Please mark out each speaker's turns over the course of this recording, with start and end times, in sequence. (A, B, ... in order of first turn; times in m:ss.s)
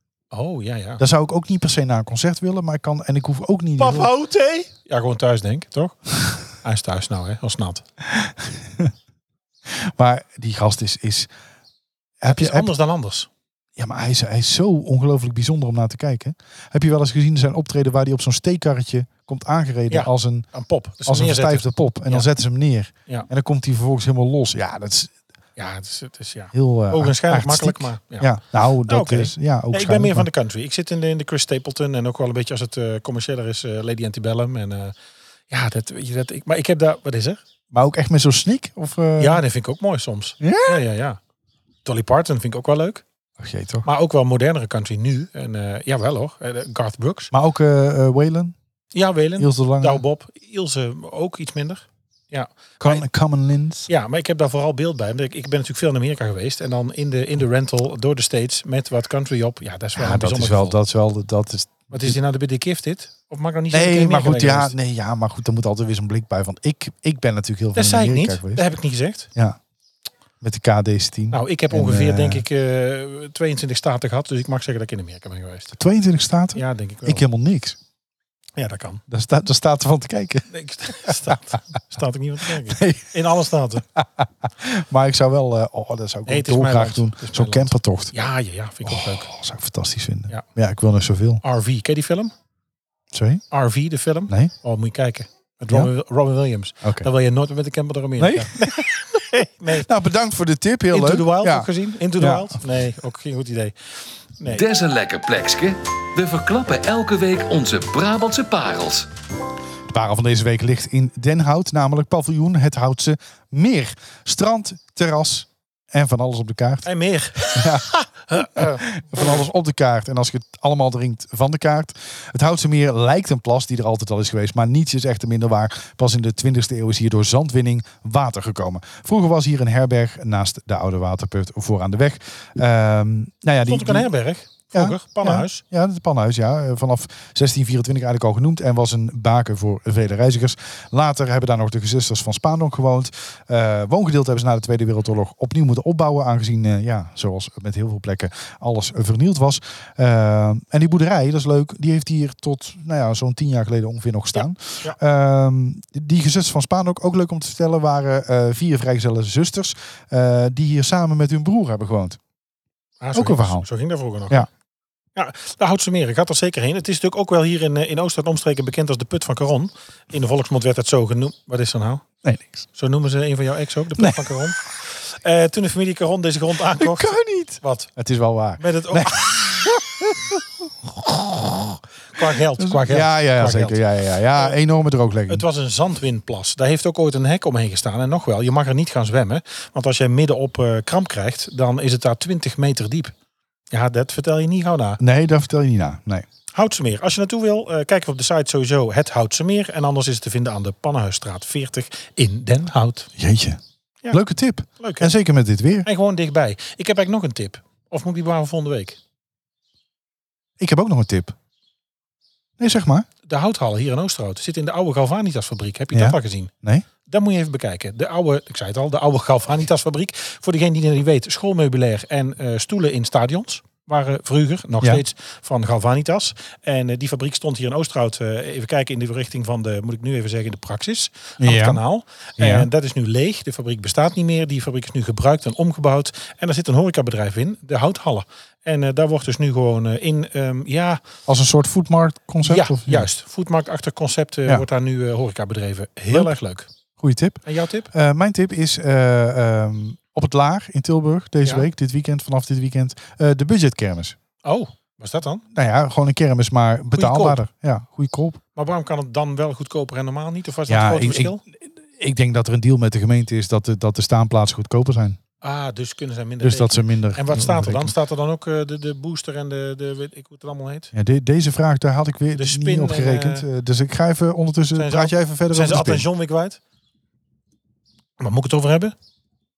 0:00.3-0:01.0 A
0:01.0-0:04.1 B
0:03.8-0:07.8 A
0:08.1-0:08.9 B
0:09.7-0:11.3 B
0:12.2-0:12.7 B
0:12.2-0:13.3 A
0:13.8-0:20.5 B
0:19.9-0:22.3 A
0:21.0-0:25.1 B
0:25.6-0:34.9 A
0:26.5-0:30.3 B
0:35.5-0:37.4 A
0:37.7-0:39.4 B
0:39.2-0:41.2 A
0:40.4-0:40.8 B
0:41.8-0:43.0 A
0:43.4-0:43.8 B
0:43.8-0:47.3 A
0:47.3-0:48.6 B
0:48.9-0:53.0 A
0:49.4-0:50.0 B
0:52.8-0:53.9 B
0:53.9-1:00.8 A
0:59.9-1:02.2 B
1:01.9-1:04.8 A
1:03.7-1:08.7 B
1:07.7-1:09.3 A
1:10.4-1:12.4 B
1:11.3-1:15.8 A
1:15.7-1:17.8 B
1:16.5-1:17.2 A
1:18.6-1:19.0 A
1:19.1-1:21.4 B
1:20.5-1:23.8 A
1:22.6-1:23.1 B
1:23.9-1:28.2 B
1:26.3-1:29.3 A
1:28.8-1:31.4 B
1:31.4-1:32.3 A
1:33.1-1:33.4 B
1:33.5-1:39.9 A
1:36.8-1:37.1 B
1:38.2-1:38.9 B
1:39.8-1:42.6 B
1:40.9-1:43.8 A
1:44.4-1:44.6 A
1:44.5-1:49.1 C
1:49.9-1:56.9 B
1:56.8-1:59.4 A
1:57.4-2:14.1 B
2:13.6-2:15.6 A
2:14.7-2:42.2 B
2:34.3-2:35.0 A
2:43.0-2:44.5 A
2:43.1-2:43.7 B
2:45.2-2:52.0 A
2:52.2-2:52.6 B
2:52.8-2:57.9 A
2:54.0-2:54.4 B
2:56.8-3:05.4 B
2:58.6-2:59.6 A
3:02.1-3:04.6 A
3:05.3-3:13.1 A
3:13.7-3:15.0 A
3:15.0-3:16.2 B
3:16.5-3:23.1 A
3:23.2-3:25.9 B
3:24.8-3:25.1 A
3:25.8-3:29.0 A
3:30.6-3:31.3 B
3:32.6-3:33.1 B
3:33.2-3:36.5 A
3:35.9-3:36.8 B
3:37.0-4:01.0 A
3:51.4-3:51.8 B
3:52.4-3:52.7 B
4:01.3-4:03.1 B
4:02.4-4:06.7 A
4:07.0-4:14.2 B
4:07.4-4:07.9 A
4:14.4-4:15.4 A
4:15.5-4:18.4 B
4:17.0-4:17.4 A
4:18.6-4:21.4 A
4:20.7-4:25.2 B
4:25.4-4:30.9 A
4:26.4-4:27.9 B
4:30.9-4:36.0 B
4:32.4-4:33.5 A
4:34.7-4:36.6 A
4:38.2-4:38.9 A